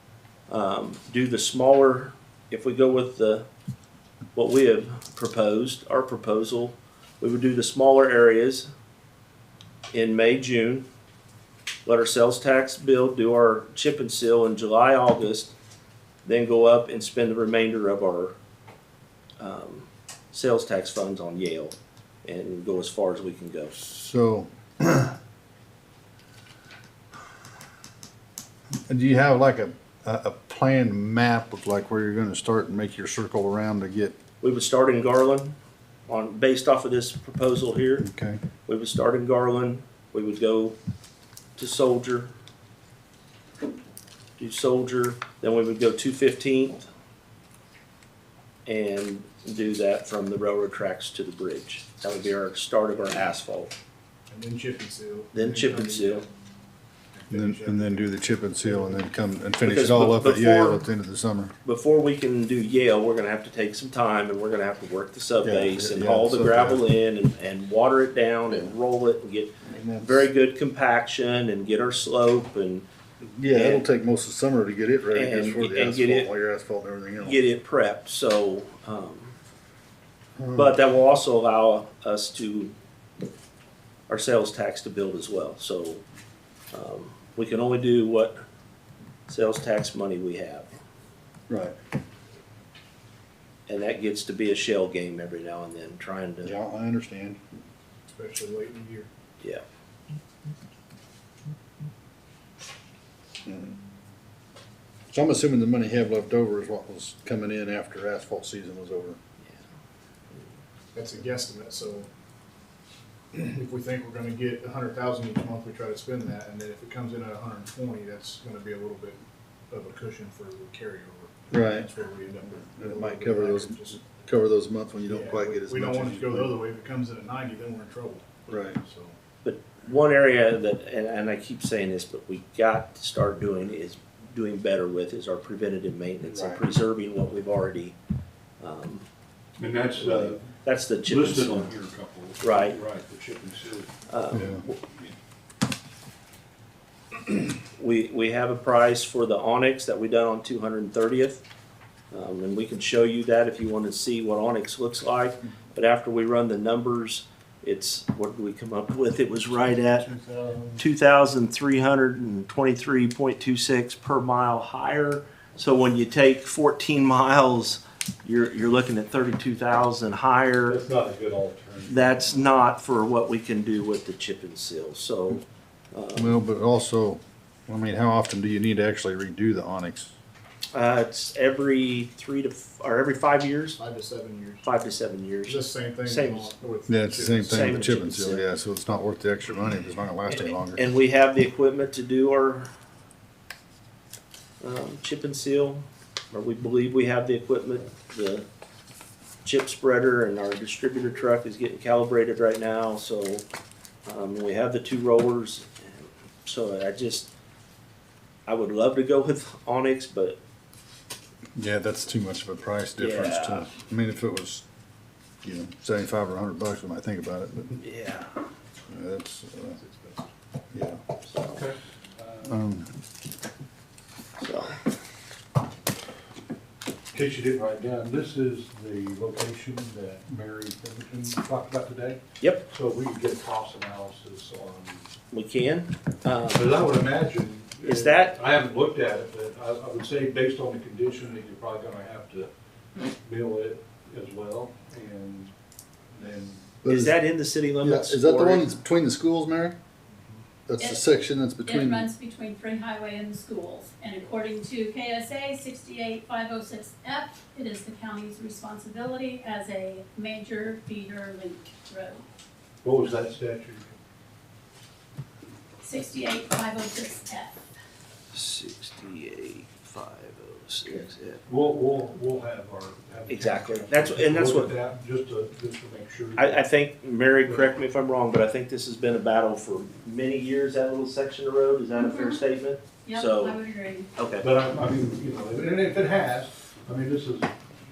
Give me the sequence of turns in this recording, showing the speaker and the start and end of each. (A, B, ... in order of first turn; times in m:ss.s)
0:00.5-0:03.5 A
0:04.3-0:08.7 A
0:09.9-0:10.9 A
0:11.9-0:15.5 A
0:16.2-0:18.4 A
0:19.4-0:23.7 A
0:23.7-0:25.2 B
0:28.9-0:34.2 B
0:34.4-0:35.6 A
0:36.1-0:38.1 A
0:38.0-0:38.4 B
0:38.6-0:40.8 A
0:41.6-0:42.3 A
0:44.4-0:46.8 A
0:48.6-0:53.7 A
0:54.3-0:56.3 C
0:55.3-0:56.2 A
0:57.1-0:59.0 C
0:57.3-1:01.5 B
0:59.6-1:00.8 A
1:01.6-1:12.9 A
1:05.4-1:06.8 B
1:09.7-1:10.2 B
1:13.2-1:17.4 B
1:13.5-1:13.8 A
1:15.1-1:16.3 A
1:17.2-1:19.4 A
1:20.4-1:20.8 B
1:20.6-1:22.7 A
1:24.1-1:26.0 A
1:26.7-1:28.4 A
1:29.3-1:30.7 A
1:31.5-1:31.8 B
1:33.7-1:36.5 A
1:36.4-1:37.4 B
1:38.1-1:39.1 C
1:43.4-1:43.8 B
1:45.1-1:49.2 B
1:51.0-1:52.1 C
1:53.3-1:59.2 C
1:59.7-2:04.1 C
2:01.5-2:01.9 B
2:02.7-2:06.6 B
2:05.1-2:09.2 C
2:08.5-2:08.8 B
2:09.4-2:18.0 A
2:16.3-2:16.6 B
2:18.6-2:19.1 A
2:19.6-2:20.5 D
2:19.9-2:21.7 A
2:21.1-2:23.9 D
2:22.4-2:22.8 A
2:24.1-2:24.7 A
2:24.3-2:24.6 B
2:24.7-2:25.1 D
2:27.6-2:31.4 A
2:32.1-2:40.1 A
2:39.9-2:40.8 C
2:40.8-2:50.8 A
2:50.7-2:52.5 D
2:51.9-2:56.4 A
2:56.2-3:00.1 B
3:00.7-3:03.8 A
3:03.8-3:04.6 C
3:04.6-3:06.6 A
3:05.5-3:08.0 C
3:06.9-3:10.8 B
3:07.5-3:08.4 A
3:10.3-3:12.7 A
3:14.6-3:18.4 A
3:19.4-3:23.5 A
3:24.1-3:27.3 A
3:28.5-3:30.4 A
3:31.6-3:34.6 B
3:33.0-3:33.7 A
3:35.4-3:37.8 B
3:37.8-3:38.3 A
3:38.9-3:39.8 B
3:39.8-3:40.3 D
3:40.7-3:41.0 B
3:41.2-3:41.7 A
3:41.5-3:42.6 D
3:42.5-3:42.9 B
3:44.4-3:44.8 A
3:47.1-3:55.1 D
3:52.4-3:52.7 A
3:55.3-3:56.8 A
3:56.5-4:02.5 D
3:57.8-3:58.4 A
4:03.2-4:05.5 D
4:06.1-4:06.7 D
4:06.8-4:07.2 B
4:06.9-4:08.8 A
4:07.8-4:09.8 B
4:10.7-4:12.1 B
4:11.6-4:22.2 E
4:22.8-4:24.0 D
4:25.8-4:27.6 E
4:28.3-4:31.4 A
4:31.5-4:36.6 D
4:33.3-4:34.7 A
4:36.4-4:43.6 A
4:37.4-4:37.8 D
4:42.0-4:42.4 E
4:43.0-4:44.1 E
4:44.2-4:44.5 A
4:44.4-4:47.5 D